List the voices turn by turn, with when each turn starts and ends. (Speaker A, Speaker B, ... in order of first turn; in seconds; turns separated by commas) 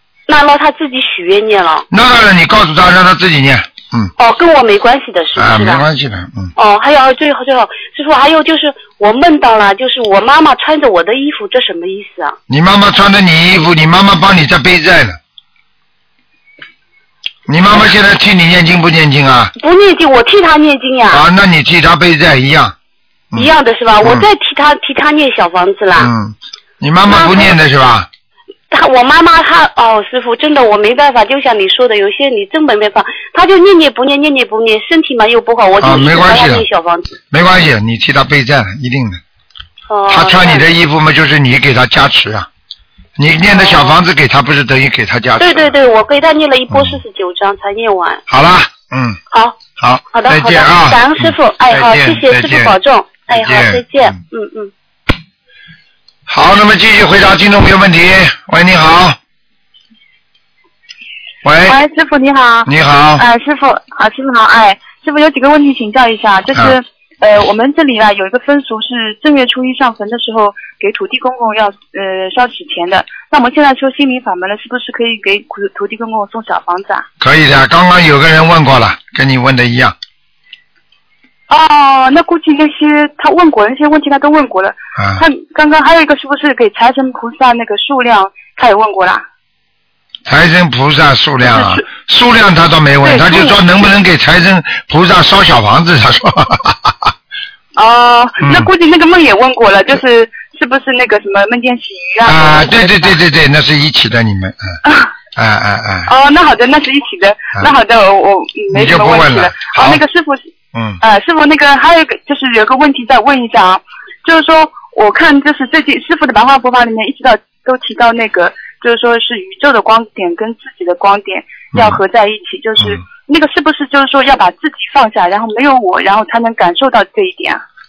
Speaker A: 0.3-1.9, Speaker B: 1.9-4.1, Speaker A: 4.2-5.8, Speaker B: 5.4-6.5, Speaker A: 6.6-12.4, Speaker B: 12.5-15.2, Speaker B: 17.5-19.5, Speaker A: 19.6-21.2, Speaker B: 21.1-22.8, Speaker A: 23.4-26.1, Speaker B: 26.0-28.1, Speaker A: 27.1-27.6, Speaker A: 28.7-37.1, Speaker B: 35.8-36.7, Speaker B: 37.3-39.2, Speaker A: 39.9-40.7, Speaker B: 40.1-42.5, Speaker B: 43.2-45.8, Speaker A: 43.5-44.0, Speaker A: 45.4-48.2, Speaker B: 46.7-47.0, Speaker B: 48.3-49.2, Speaker A: 49.3-49.6, Speaker B: 49.8-52.8, Speaker A: 50.1-54.7, Speaker B: 53.3-54.2, Speaker B: 56.3-59.2, Speaker B: 61.4-61.8, Speaker C: 61.6-77.1, Speaker B: 62.7-63.2, Speaker B: 77.2-80.0, Speaker C: 81.5-89.2, Speaker B: 85.0-85.2, Speaker B: 90.3-97.1, Speaker C: 91.5-91.8, Speaker C: 93.0-93.6, Speaker C: 97.8-103.2, Speaker B: 98.4-98.7, Speaker B: 102.2-104.8, Speaker C: 104.8-105.1, Speaker B: 105.3-106.1, Speaker C: 106.1-110.5, Speaker B: 108.7-110.0, Speaker B: 110.7-111.0, Speaker C: 111.0-127.6, Speaker B: 121.7-122.0